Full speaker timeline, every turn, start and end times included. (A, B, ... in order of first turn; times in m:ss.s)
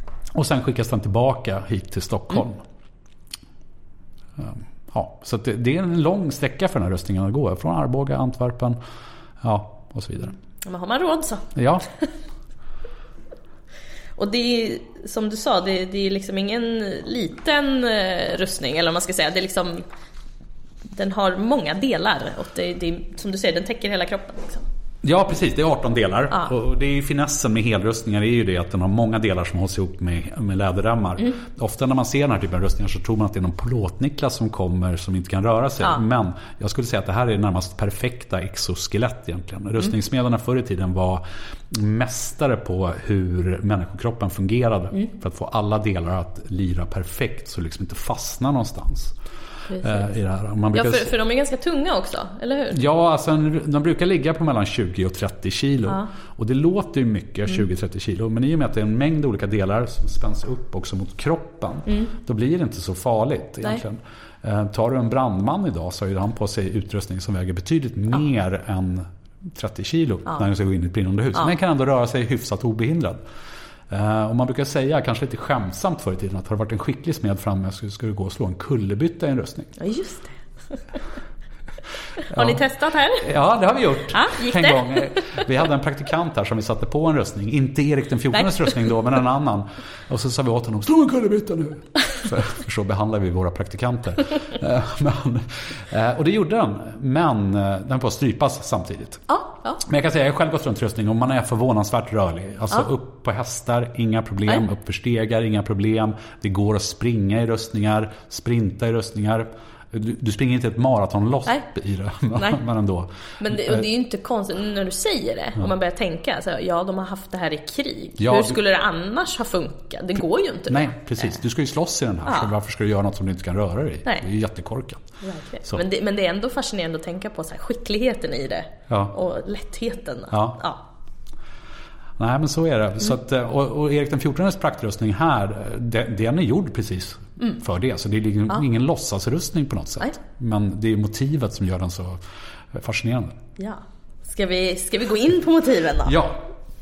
0:00.3-0:02.6 A
0:04.4-0:08.8 A
0:09.4-0:10.4 A
0:10.6-0:12.0 B
0:11.5-0:11.8 A
0:14.2-0:19.8 B
0:20.9-0:24.6 B
0:25.0-0:49.2 A
0:49.7-0:50.0 B
0:49.8-0:51.1 A
0:50.7-0:52.8 B
0:52.7-1:13.2 A
1:01.9-1:02.1 B
1:13.9-1:19.7 A
1:19.8-1:20.4 B
1:22.2-1:23.2 B
1:22.3-1:39.2 A
1:24.1-1:25.4 B
1:39.3-1:39.8 B
1:39.8-1:53.9 A
1:53.4-2:01.3 B
1:58.2-1:58.6 A
2:00.7-2:05.0 A
2:05.2-2:10.8 B
2:08.9-2:09.1 A
2:10.3-2:10.6 A
2:12.2-2:22.2 A
2:22.7-2:23.4 A
2:23.6-2:26.2 B
2:26.0-2:26.5 A